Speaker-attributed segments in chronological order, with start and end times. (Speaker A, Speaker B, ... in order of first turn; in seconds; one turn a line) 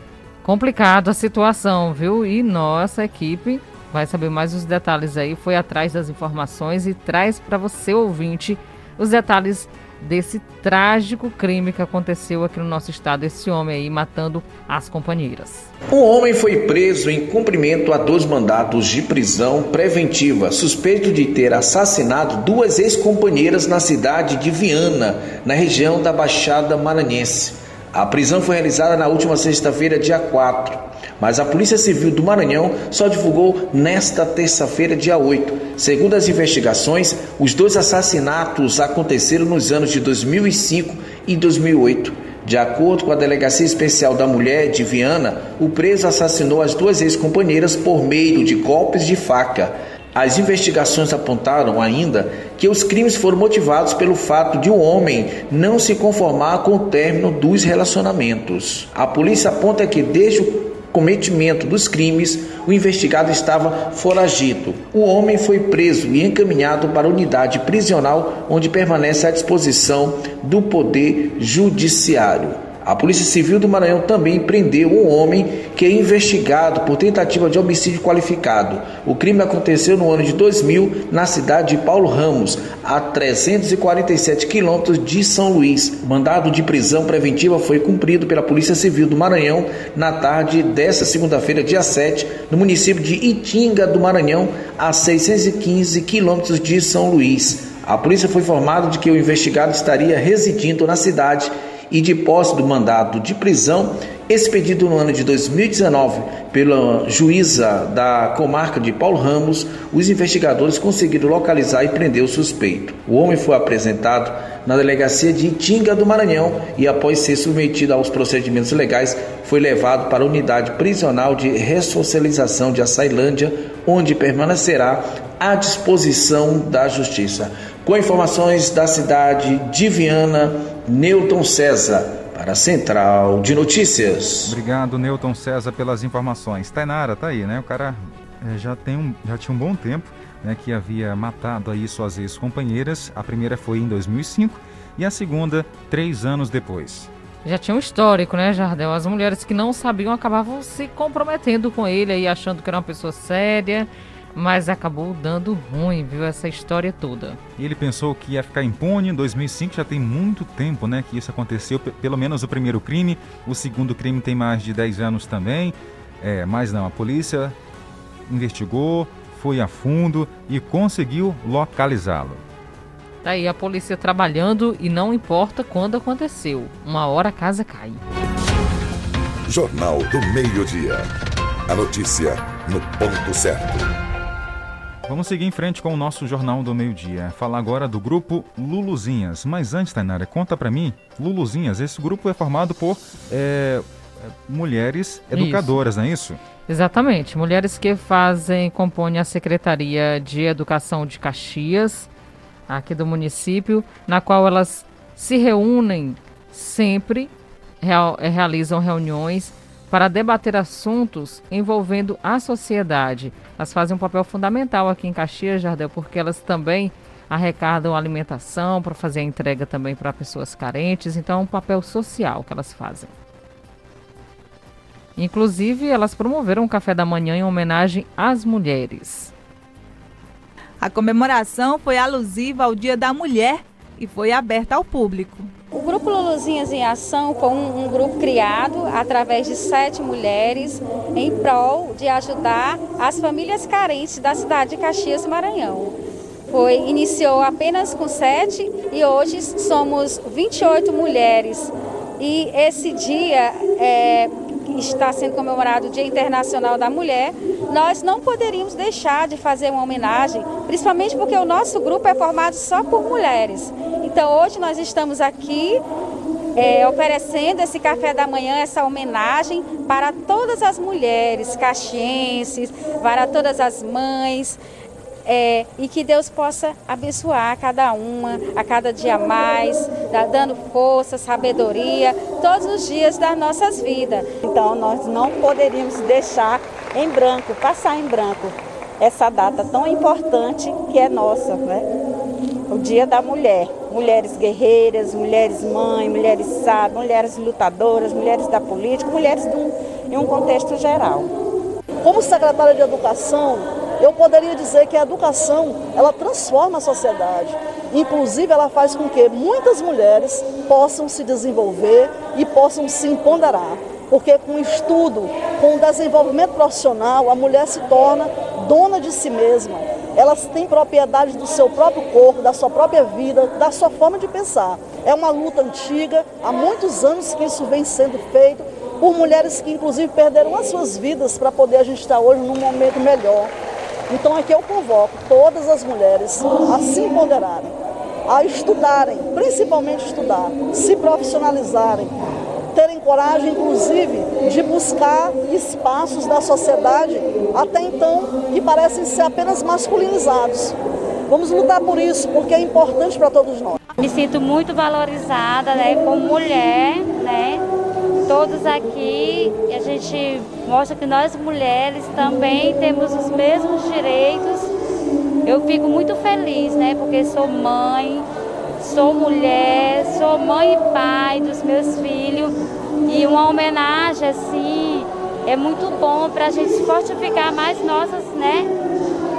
Speaker A: 0.4-15.7
Speaker B: 15.9-134.6
Speaker C: 134.4-147.1
Speaker A: 147.4-157.4
Speaker C: 157.6-167.6
Speaker C: 168.3-172.4
Speaker A: 173.2-178.0
Speaker D: 179.5-181.1
Speaker D: 181.7-183.9
Speaker C: 185.1-196.4
Speaker A: 195.3-195.8
Speaker A: 196.7-202.1
Speaker A: 202.7-223.1
Speaker A: 225.2-229.3
Speaker E: 230.8-235.5
Speaker F: 235.7-245.9
Speaker F: 246.5-265.8
Speaker F: 266.6-274.6
Speaker F: 275.3-284.3
Speaker G: 284.8-291.6
Speaker G: 292.7-301.3
Speaker H: 302.0-333.5
Speaker H: 334.1-337.7
Speaker H: 338.3-342.1
Speaker H: 342.7-350.8
Speaker H: 351.3-353.8
Speaker I: 354.0-357.6
Speaker I: 358.3-364.7
Speaker I: 365.5-368.3
Speaker I: 368.8-372.6
Speaker I: 373.1-378.7